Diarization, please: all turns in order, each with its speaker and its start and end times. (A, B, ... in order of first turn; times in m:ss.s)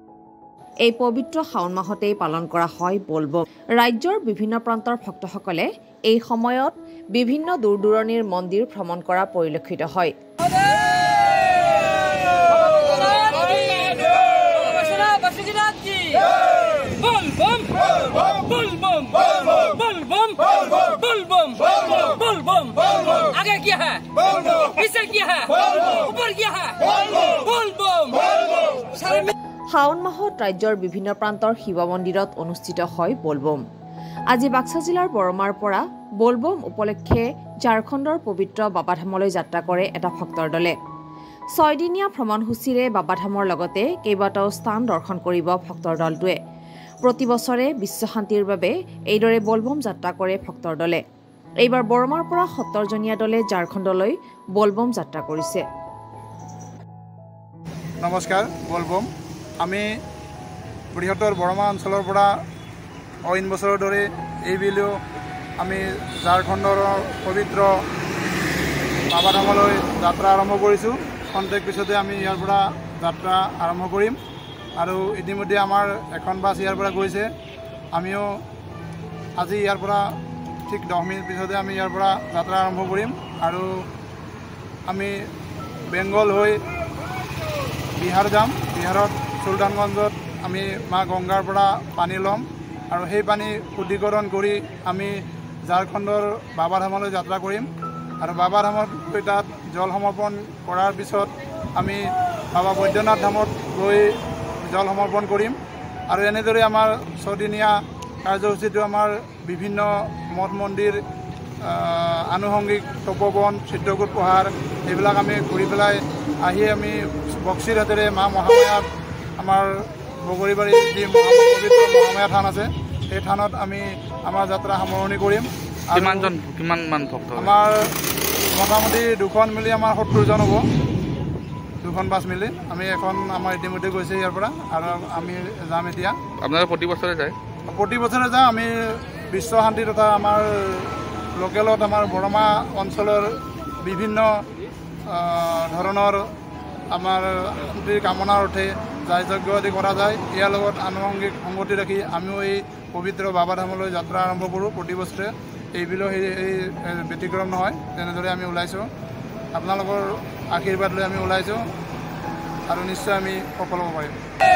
0:00.8-0:10.1 A
0:12.4-0:29.3 B
0:29.7-0:33.6 A
0:34.3-0:40.7 A
0:41.6-0:46.4 A
0:47.0-0:51.0 A
0:51.6-0:55.6 A
0:58.0-0:59.1 C
0:59.6-0:59.9 C
1:00.9-1:02.3 C
1:03.3-1:04.9 C
1:05.6-1:07.7 C
1:09.1-1:14.2 C
1:14.8-1:17.3 C
1:18.0-1:18.3 C
1:19.4-1:20.0 C
1:20.7-1:23.7 C
1:24.9-1:25.1 C
1:25.9-1:26.6 C
1:28.0-1:37.7 C
1:38.2-1:44.1 C
1:44.6-1:45.6 C
1:46.1-1:51.0 C
1:51.6-1:58.9 C
1:59.4-2:06.3 C
2:05.9-2:07.5 D
2:07.4-2:07.9 C
2:08.6-2:10.6 C
2:11.8-2:16.2 C
2:16.4-2:17.4 D
2:17.7-2:24.3 C
2:25.1-2:26.3 C
2:26.9-2:38.9 C
2:39.5-2:41.7 C
2:42.7-2:44.2 C